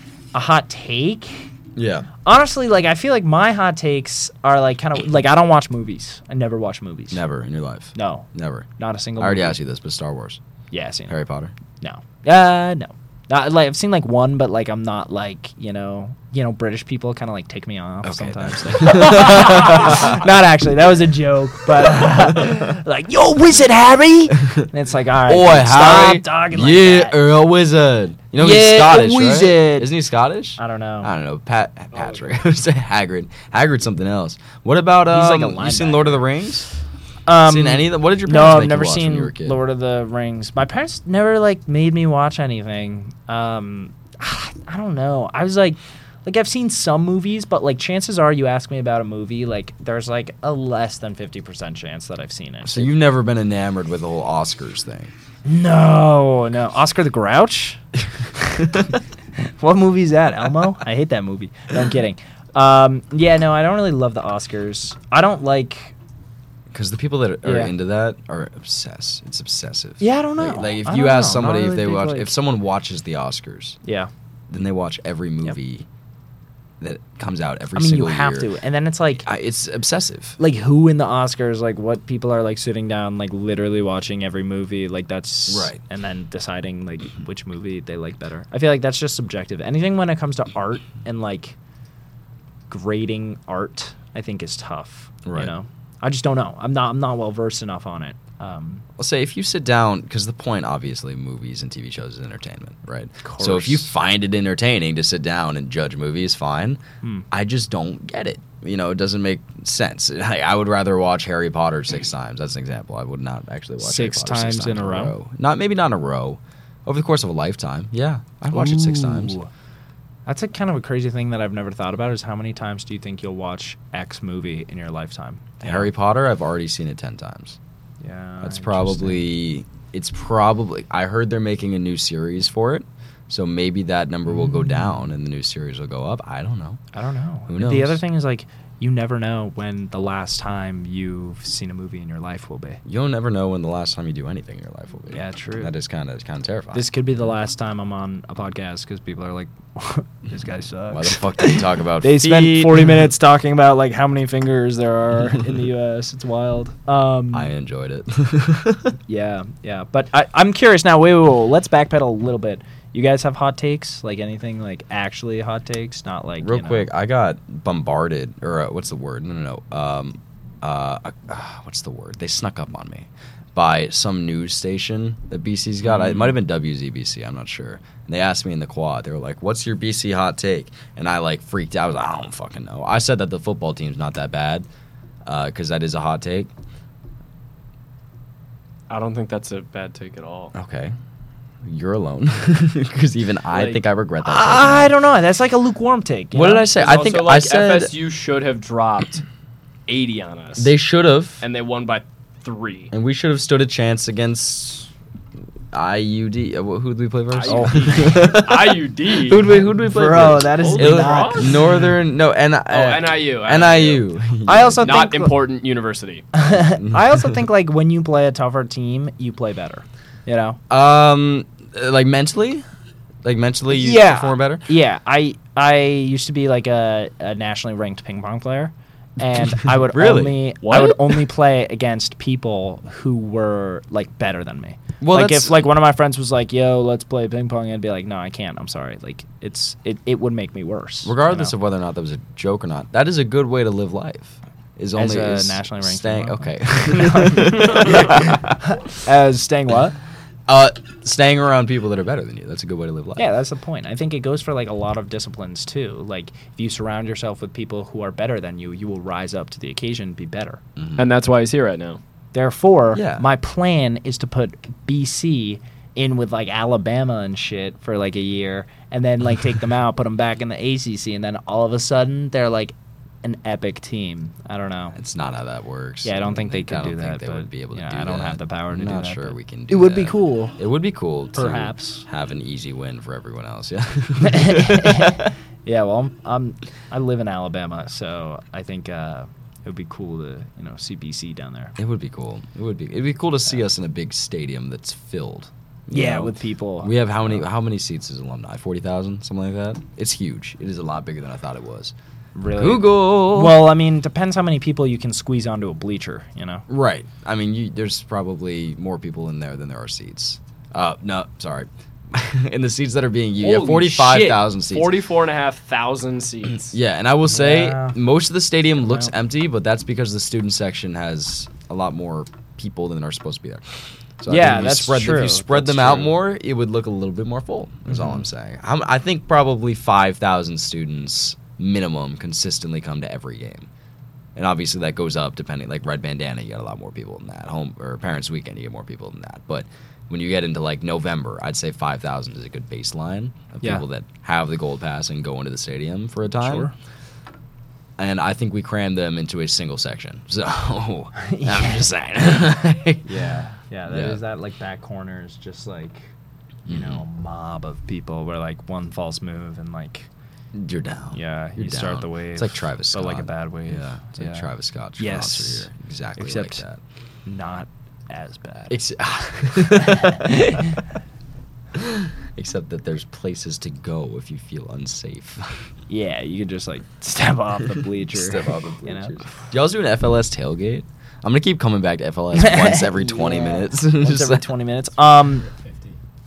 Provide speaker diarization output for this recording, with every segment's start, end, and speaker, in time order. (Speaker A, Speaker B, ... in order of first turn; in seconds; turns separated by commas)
Speaker A: 0.3-1.5, Speaker B: 1.8-2.1, Speaker A: 2.2-7.2, Speaker B: 7.1-8.7, Speaker A: 7.9-8.3, Speaker A: 8.8-9.6, Speaker B: 9.2-10.4, Speaker A: 10.7-11.2, Speaker B: 11.1-11.5, Speaker A: 11.8-27.2, Speaker B: 18.0-20.2, Speaker B: 21.7-22.7, Speaker B: 25.3-36.6, Speaker A: 28.4-29.9, Speaker A: 30.6-31.1, Speaker A: 35.1-36.2, Speaker A: 37.2-52.9, Speaker B: 37.4-39.6, Speaker B: 52.6-55.1, Speaker A: 55.4-57.8, Speaker A: 58.3-58.8, Speaker A: 59.4-65.9, Speaker B: 66.7-73.8, Speaker A: 67.4-67.7, Speaker A: 70.0-72.3, Speaker A: 73.8-74.1, Speaker B: 74.5-75.8, Speaker B: 76.8-78.5, Speaker A: 77.7-79.2, Speaker B: 79.2-80.4, Speaker A: 80.4-91.5, Speaker B: 85.5-85.8, Speaker A: 92.7-98.8, Speaker B: 95.2-95.5, Speaker B: 99.0-119.3, Speaker A: 103.2-103.9, Speaker A: 113.8-115.1, Speaker A: 118.5-119.5, Speaker A: 120.2-125.9, Speaker B: 125.6-127.6, Speaker A: 128.0-129.2, Speaker B: 128.4-136.8, Speaker A: 134.3-135.1, Speaker A: 136.9-142.8, Speaker B: 137.5-138.0, Speaker B: 142.8-146.9, Speaker A: 145.1-145.7, Speaker A: 146.7-157.5, Speaker B: 150.9-153.0, Speaker B: 157.3-158.9, Speaker A: 159.1-166.9, Speaker B: 166.4-184.7, Speaker A: 175.8-176.4, Speaker B: 185.2-186.5, Speaker C: 188.9-190.5, Speaker B: 190.5-190.9, Speaker B: 191.6-194.9, Speaker C: 193.5-193.8, Speaker A: 194.2-196.7, Speaker B: 196.3-197.9, Speaker C: 196.7-199.2, Speaker C: 199.9-200.7, Speaker B: 200.6-201.4, Speaker C: 201.4-202.9, Speaker B: 202.9-204.9, Speaker B: 205.7-215.1, Speaker C: 207.3-209.5, Speaker A: 207.5-208.1, Speaker A: 209.4-211.5, Speaker C: 210.3-211.7, Speaker C: 212.7-214.1, Speaker A: 214.4-215.3, Speaker C: 214.8-216.2, Speaker A: 216.3-220.6, Speaker B: 216.5-217.4, Speaker B: 220.7-222.6, Speaker B: 223.2-224.6, Speaker A: 223.7-241.5, Speaker B: 229.7-230.4, Speaker C: 230.6-231.2, Speaker B: 235.0-235.6, Speaker B: 241.0-248.6, Speaker A: 244.9-250.0, Speaker B: 250.5-253.2, Speaker A: 253.2-260.6, Speaker B: 260.8-261.1, Speaker C: 261.0-262.0, Speaker A: 262.3-274.9, Speaker B: 262.9-263.2, Speaker B: 274.9-285.3, Speaker A: 276.0-280.6, Speaker A: 281.3-282.1, Speaker A: 284.2-291.7, Speaker B: 291.8-301.9, Speaker A: 295.9-297.4, Speaker A: 302.3-306.6, Speaker B: 302.5-303.7, Speaker B: 306.7-315.0, Speaker C: 313.4-316.8, Speaker B: 316.7-333.7, Speaker A: 317.3-318.0, Speaker A: 318.8-319.1, Speaker A: 324.3-326.1, Speaker A: 327.9-328.2, Speaker B: 334.4-346.7, Speaker A: 346.3-346.7, Speaker B: 348.0-353.2, Speaker A: 351.2-351.9, Speaker A: 353.0-356.1, Speaker B: 353.9-354.2, Speaker B: 356.6-357.0, Speaker A: 356.6-360.1, Speaker B: 360.5-366.8, Speaker A: 361.1-366.6, Speaker A: 367.2-368.8, Speaker B: 368.7-370.8, Speaker A: 369.7-370.8, Speaker B: 371.7-375.7, Speaker A: 375.9-379.3, Speaker B: 377.8-384.4, Speaker A: 382.3-385.5, Speaker C: 385.5-386.0